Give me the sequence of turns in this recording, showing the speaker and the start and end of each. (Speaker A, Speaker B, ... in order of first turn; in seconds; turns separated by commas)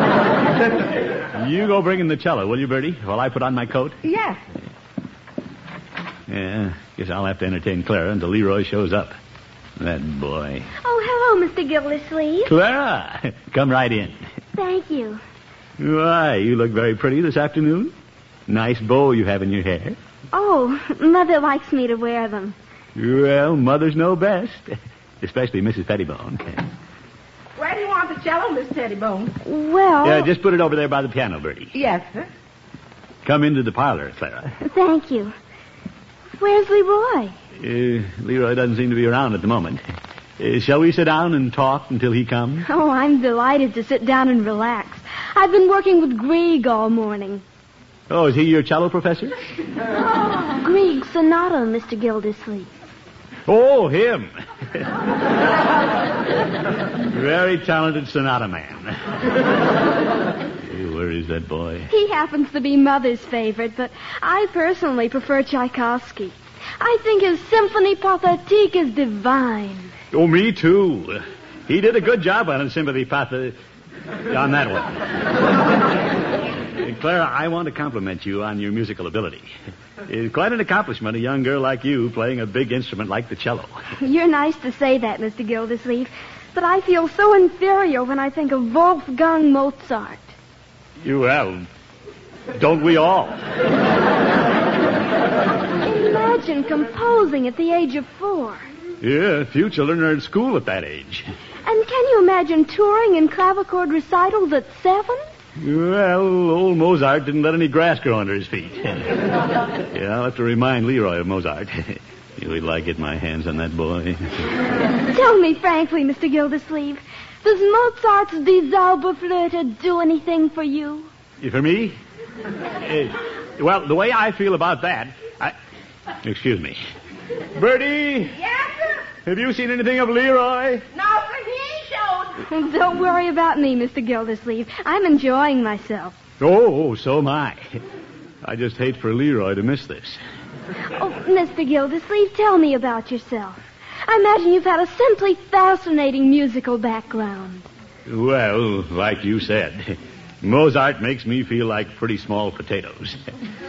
Speaker A: 1.3-4.0, Speaker B: 4.0-4.4, Speaker A: 6.3-9.2, Speaker A: 9.8-10.7, Speaker C: 10.8-12.5, Speaker A: 12.5-14.2, Speaker C: 14.6-15.2, Speaker A: 15.8-17.9, Speaker A: 18.5-20.0, Speaker C: 20.3-22.6, Speaker A: 23.0-26.7, Speaker B: 27.6-29.4, Speaker C: 29.4-30.3, Speaker A: 30.0-31.7, Speaker B: 31.7-32.3, Speaker A: 33.2-34.5, Speaker C: 34.6-35.3, Speaker C: 36.4-37.3, Speaker A: 37.6-39.8, Speaker A: 40.4-42.7, Speaker C: 42.7-47.4, Speaker A: 48.1-49.3, Speaker C: 50.4-52.7, Speaker A: 53.5-54.9, Speaker A: 57.1-59.0, Speaker A: 60.6-61.9, Speaker C: 61.9-69.9, Speaker A: 70.1-73.6, Speaker A: 74.3-75.2, Speaker A: 76.8-79.5, Speaker A: 80.1-83.7, Speaker C: 84.0-90.3, Speaker A: 91.0-91.7, Speaker A: 92.5-93.4, Speaker C: 95.8-98.7, Speaker A: 99.0-101.3, Speaker C: 101.7-105.2, Speaker A: 105.6-109.3, Speaker A: 109.9-114.5, Speaker C: 115.1-121.1, Speaker A: 121.4-122.0, Speaker A: 122.8-125.5, Speaker A: 126.2-126.8, Speaker A: 127.5-128.4, Speaker B: 128.3-129.1, Speaker A: 129.2-130.8, Speaker B: 130.9-132.4, Speaker C: 132.5-136.2, Speaker A: 136.4-137.6, Speaker A: 138.4-140.2, Speaker C: 141.0-147.7, Speaker A: 148.1-153.2